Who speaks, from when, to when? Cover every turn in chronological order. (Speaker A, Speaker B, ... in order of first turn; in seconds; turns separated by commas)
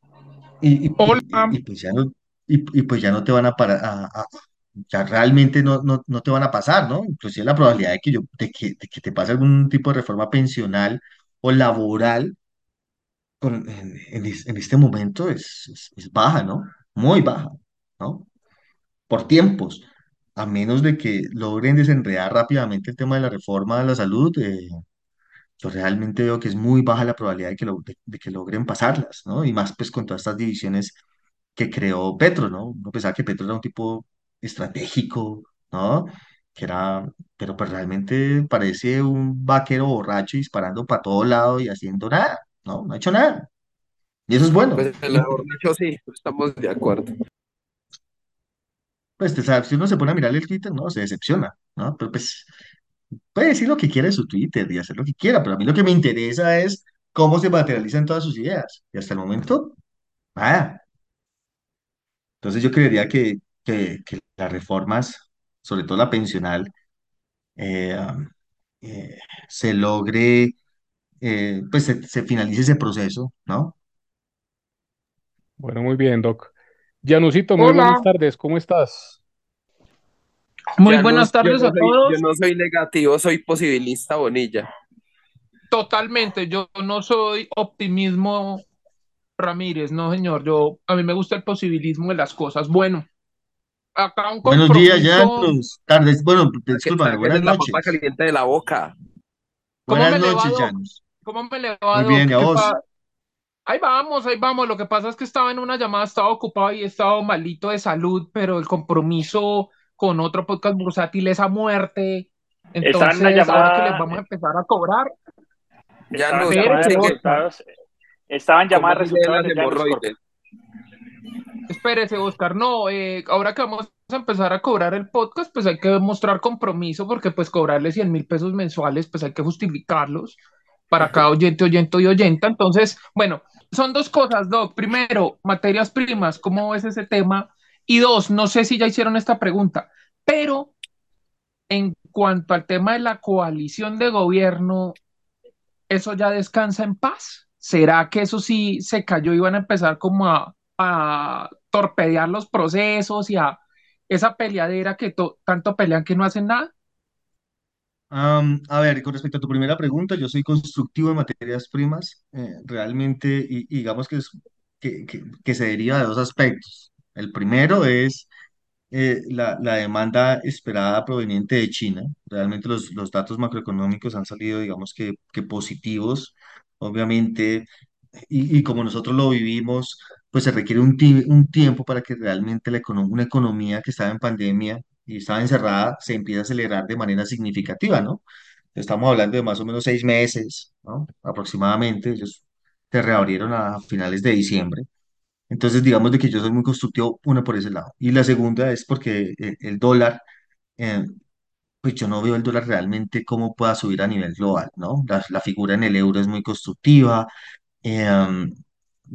Speaker A: 0.6-12.4, Speaker B: 1.0-1.6, Speaker A: 13.4-18.3, Speaker A: 19.1-24.8, Speaker A: 25.6-31.0, Speaker A: 31.6-43.5, Speaker A: 44.3-45.4, Speaker C: 44.8-47.1, Speaker A: 49.2-52.5, Speaker A: 53.3-59.8, Speaker A: 60.4-60.8, Speaker A: 62.4-66.7, Speaker A: 67.6-68.3, Speaker A: 68.8-70.6, Speaker A: 71.2-73.8, Speaker D: 75.6-79.2, Speaker B: 77.6-78.1, Speaker B: 80.8-82.2, Speaker C: 80.8-84.7, Speaker B: 85.7-88.7, Speaker B: 89.4-93.1, Speaker B: 94.0-95.5, Speaker A: 94.5-97.9, Speaker C: 96.8-99.0, Speaker A: 99.9-101.0, Speaker B: 99.9-102.8, Speaker A: 101.9-102.7, Speaker B: 103.7-115.1, Speaker E: 112.8-114.0, Speaker C: 116.1-117.2, Speaker E: 116.1-117.7, Speaker B: 116.5-117.4, Speaker E: 118.3-120.0, Speaker C: 118.7-120.2, Speaker B: 121.7-130.4, Speaker B: 130.9-140.7, Speaker B: 141.7-145.0, Speaker B: 145.9-156.7, Speaker A: 158.1-168.3, Speaker A: 168.9-188.2, Speaker A: 188.8-194.9, Speaker A: 195.5-200.2, Speaker A: 200.8-201.2, Speaker A: 201.8-207.3, Speaker A: 207.8-208.6